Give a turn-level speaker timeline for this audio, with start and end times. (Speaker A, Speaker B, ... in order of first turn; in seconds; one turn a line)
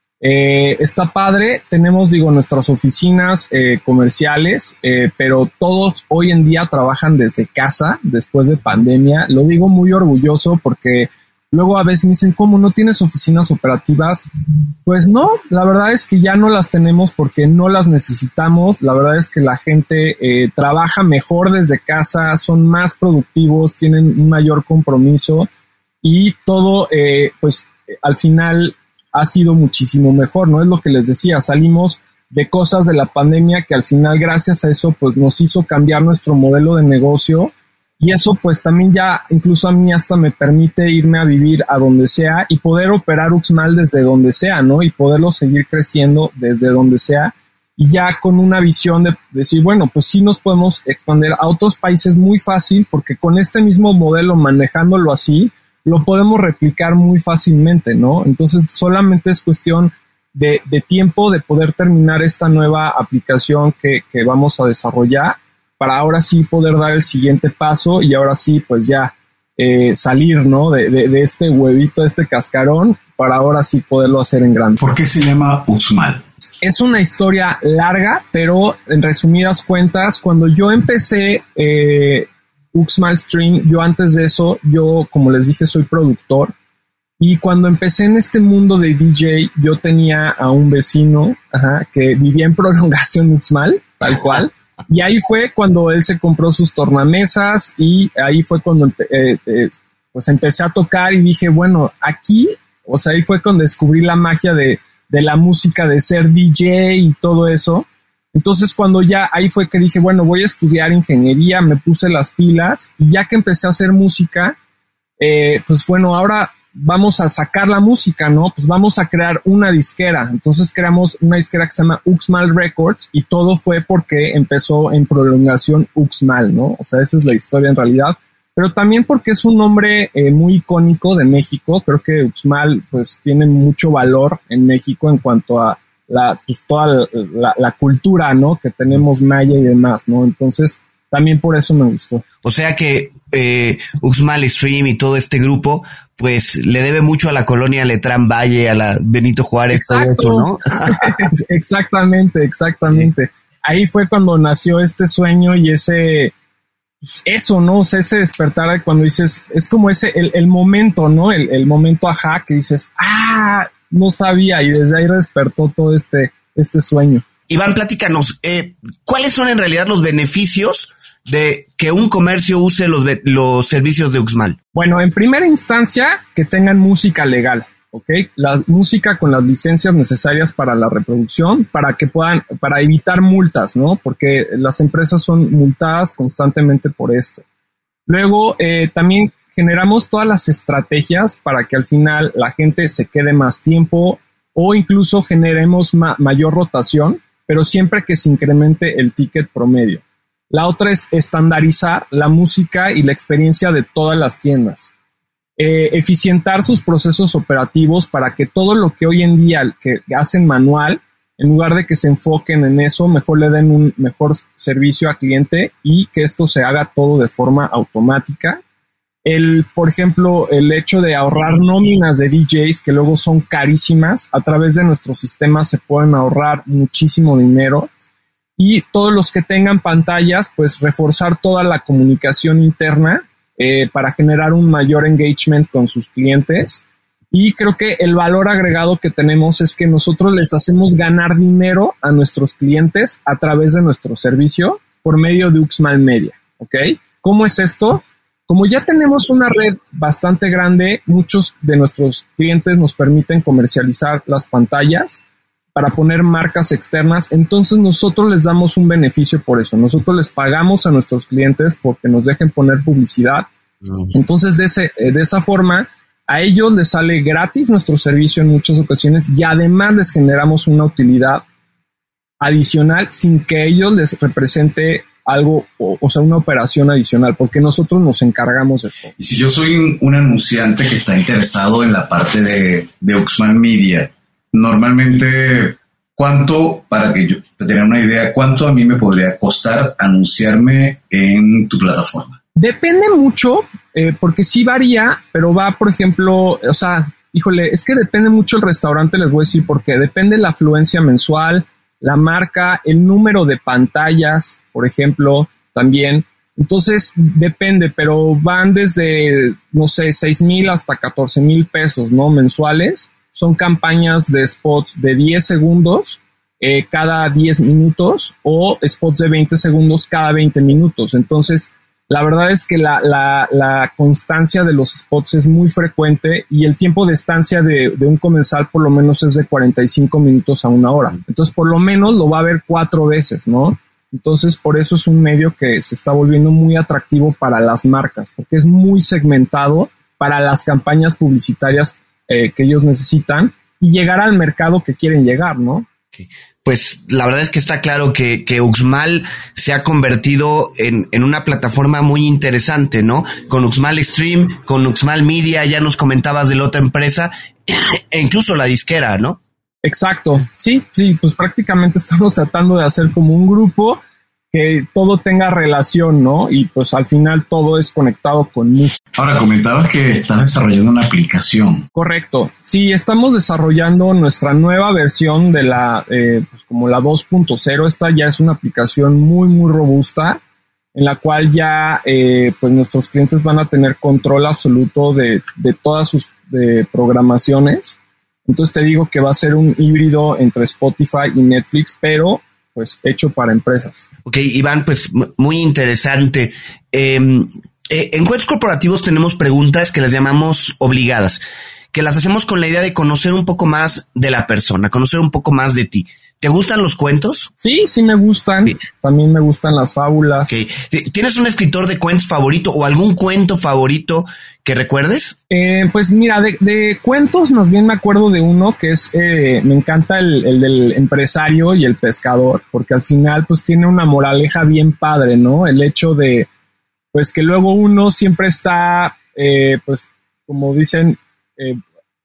Speaker A: 0.2-14.3
Speaker A: 14.8-25.5
Speaker A: 26.0-74.8
Speaker B: 74.8-76.2
Speaker A: 76.6-86.5
Speaker A: 87.2-114.5
Speaker A: 115.2-142.2
Speaker C: 142.4-151.2
Speaker A: 149.7-156.3
Speaker A: 157.0-167.2
Speaker C: 167.5-174.6
Speaker A: 174.7-187.4
Speaker A: 188.1-204.9
Speaker A: 205.6-218.6
Speaker A: 219.2-227.9
Speaker A: 228.6-255.2
Speaker A: 255.7-263.5
Speaker A: 264.1-271.4
Speaker A: 272.4-279.1
Speaker B: 279.2-292.4
Speaker A: 292.6-345.9
Speaker C: 346.1-359.4
Speaker A: 359.8-364.0
Speaker A: 364.5-369.0
Speaker B: 369.1-371.9
Speaker A: 371.9-380.4
Speaker A: 380.9-394.1
Speaker C: 394.2-401.4
Speaker C: 401.9-407.5
Speaker A: 407.6-410.6
Speaker C: 410.5-415.4
Speaker A: 415.5-426.5
Speaker A: 427.1-431.8